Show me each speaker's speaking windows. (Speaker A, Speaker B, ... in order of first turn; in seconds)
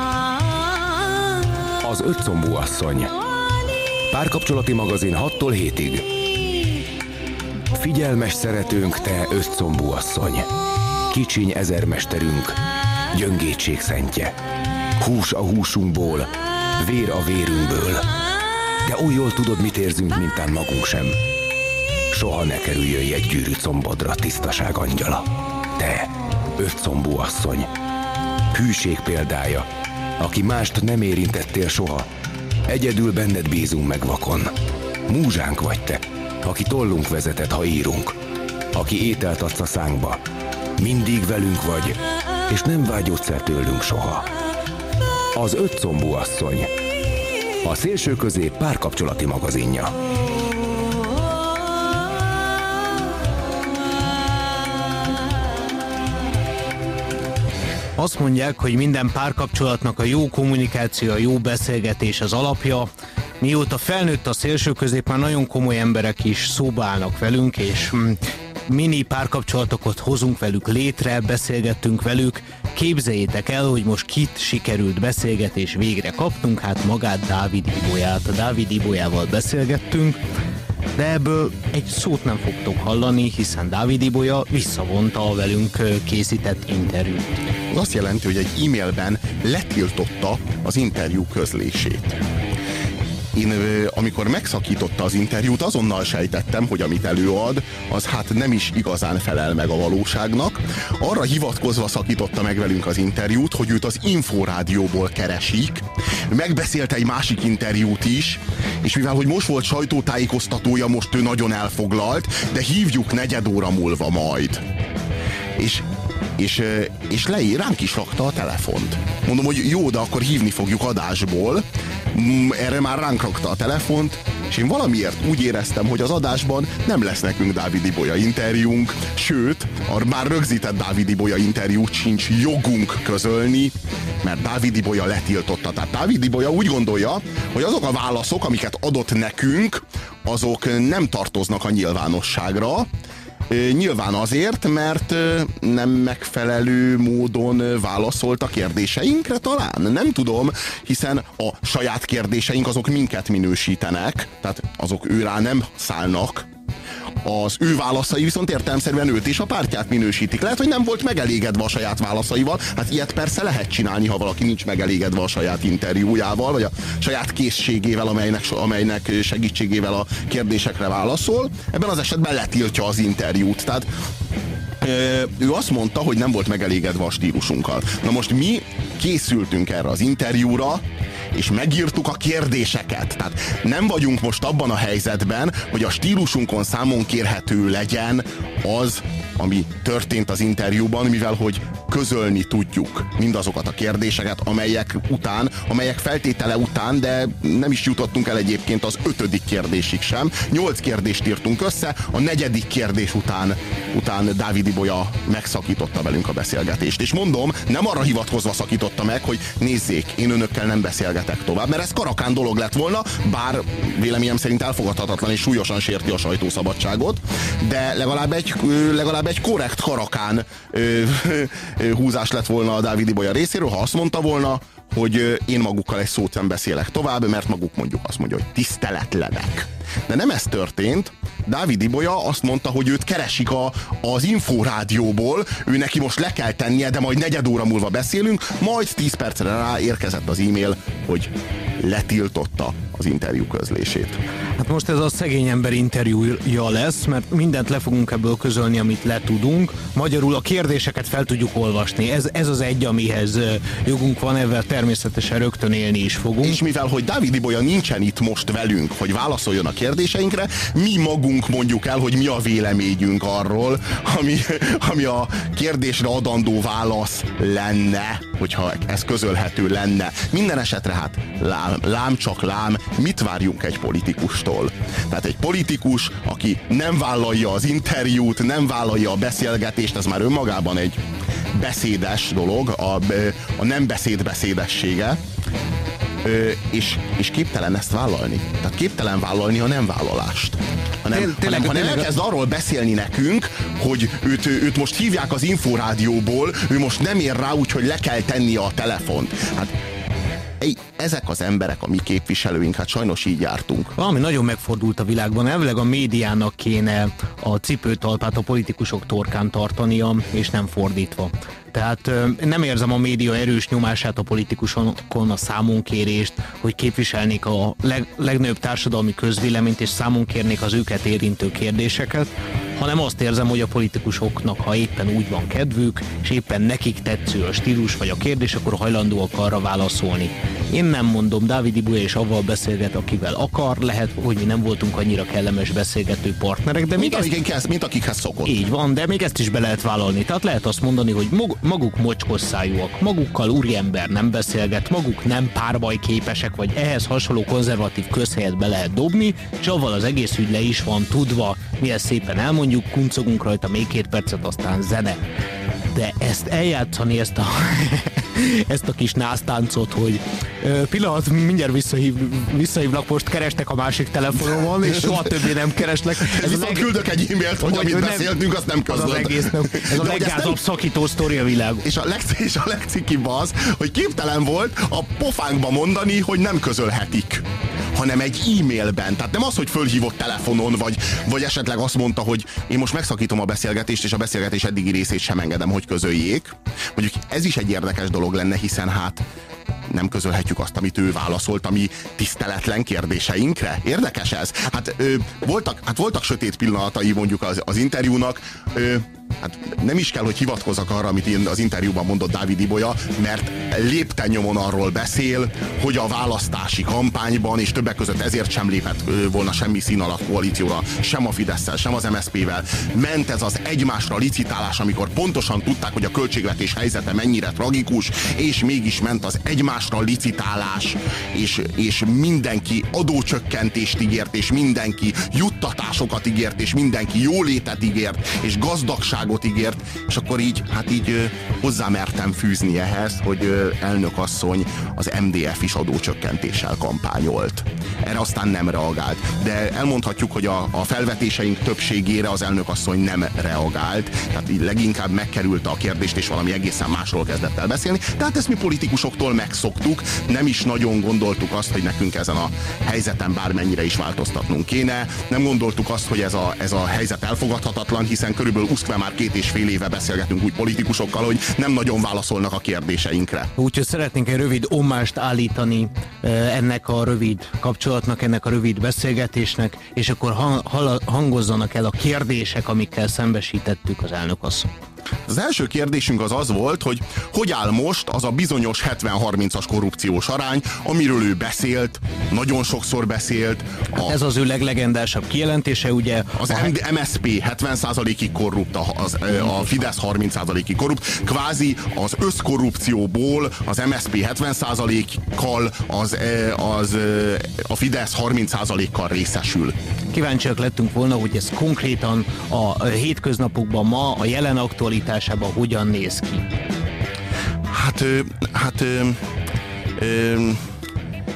Speaker A: 1.8-3.1, 4.1-6.1, 7.8-10.5, 11.1-12.6, 13.1-14.3, 15.0-18.1, 18.9-21.2, 22.1-27.7, 28.5-29.7, 30.2-32.1, 32.7-34.5, 35.1-38.2, 38.7-40.2, 40.8-44.3, 45.4-46.7, 47.6-49.9
Speaker B: 58.0-80.2, 81.0-87.3, 244.6-256.6, 291.1-292.1, 304.0-337.3, 338.4-355.2, 355.9-366.9, 367.6-371.9, 463.6-474.7, 483.9-486.7, 500.1-506.4
Speaker C: 87.7-92.2, 93.3-114.6, 115.6-115.8, 116.4-142.9, 143.5-156.5, 157.2-173.9, 174.8-244.2, 256.4-281.0, 281.5-285.2, 286.2-299.7, 300.6-303.9, 337.0-338.5, 366.2-370.6, 371.8-389.2, 389.9-463.5, 475.3-484.2, 486.4-499.7, 507.7-509.2, 510.0-510.6